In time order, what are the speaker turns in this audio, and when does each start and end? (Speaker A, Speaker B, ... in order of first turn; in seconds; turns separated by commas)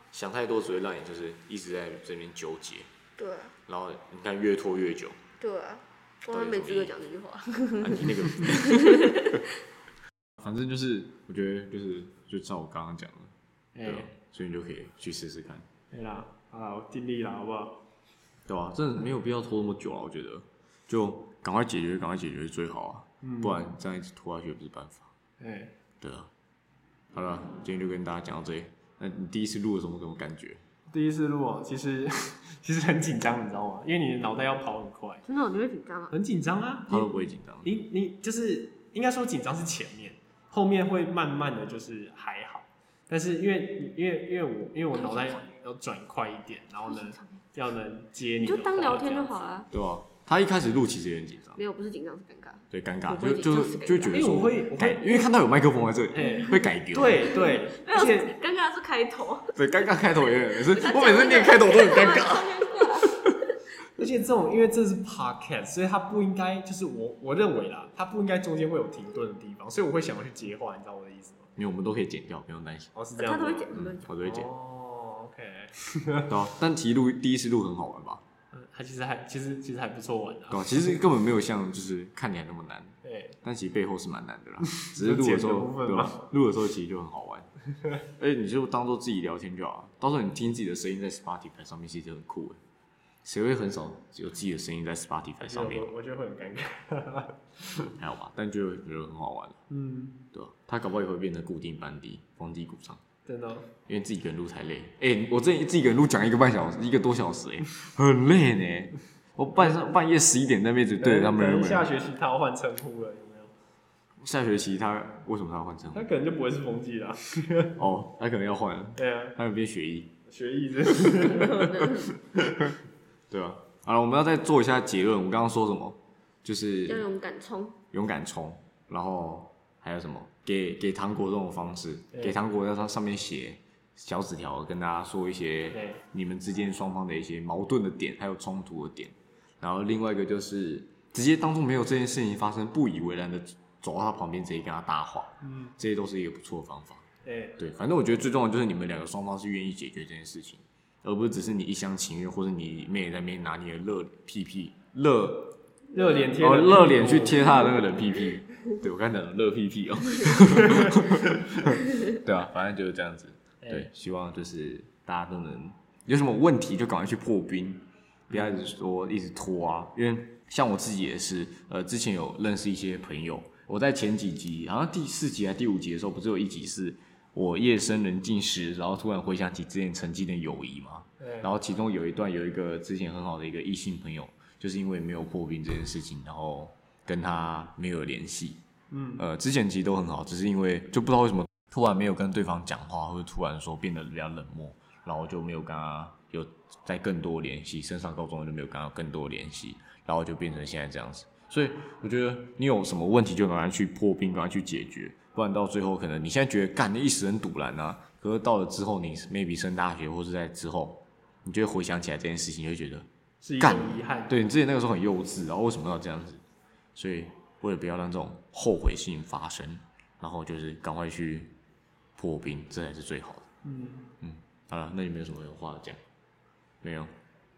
Speaker A: 0.1-2.9, Speaker B: 3.2-3.5, Speaker A: 3.7-5.2, Speaker B: 5.4-9.4, Speaker A: 6.3-6.9, Speaker A: 7.8-9.3, Speaker A: 10.4-13.3, Speaker C: 13.7-14.1, Speaker A: 13.8-15.7, Speaker C: 15.9-17.8, Speaker A: 18.5-25.1, Speaker C: 23.2-23.6, Speaker C: 25.4-25.7, Speaker A: 26.0-26.3, Speaker A: 27.1-30.6, Speaker C: 30.9-35.2, Speaker B: 35.2-36.1, Speaker C: 36.1-37.1, Speaker A: 36.9-37.8, Speaker C: 37.6-49.4, Speaker B: 44.9-45.4, Speaker B: 46.9-47.4, Speaker B: 48.4-49.7, Speaker A: 49.7-51.6, Speaker B: 51.6-54.5, Speaker A: 52.7-57.3, Speaker C: 54.1-55.3, Speaker C: 56.1-58.3, Speaker B: 56.2-56.6, Speaker B: 57.3-63.2, Speaker A: 59.5-63.1, Speaker C: 64.0-71.5, Speaker A: 71.6-72.9, Speaker C: 73.0-76.4, Speaker B: 73.1-74.1, Speaker A: 73.7-74.5, Speaker A: 76.3-78.2, Speaker C: 78.5-80.8, Speaker A: 80.5-87.5, Speaker C: 83.0-83.4, Speaker C: 84.7-86.3, Speaker A: 88.1-92.6, Speaker A: 93.2-95.9, Speaker C: 95.4-97.9, Speaker A: 98.0-99.6, Speaker C: 99.7-100.2, Speaker A: 100.3-103.0, Speaker C: 103.3-103.7, Speaker A: 103.9-111.9, Speaker C: 111.0-113.5, Speaker A: 114.2-116.0, Speaker C: 115.9-117.8, Speaker A: 117.8-120.1, Speaker C: 119.0-119.3, Speaker C: 120.3-122.7, Speaker B: 121.3-122.1, Speaker A: 123.3-127.0, Speaker B: 126.9-127.8, Speaker A: 127.9-147.1, Speaker C: 135.7-136.0, Speaker C: 145.4-145.7, Speaker C: 147.2-147.6, Speaker A: 147.6-155.6, Speaker B: 155.9-156.3, Speaker C: 155.9-157.6, Speaker A: 156.4-188.6, Speaker C: 163.6-163.9, Speaker C: 168.3-168.7, Speaker C: 181.2-181.5, Speaker C: 188.9-189.2, Speaker A: 189.2-213.1, Speaker C: 213.4-214.4, Speaker A: 213.6-216.4, Speaker A: 216.9-221.5, Speaker A: 222.2-223.5, Speaker C: 223.6-224.1, Speaker A: 224.2-226.0, Speaker A: 226.8-227.1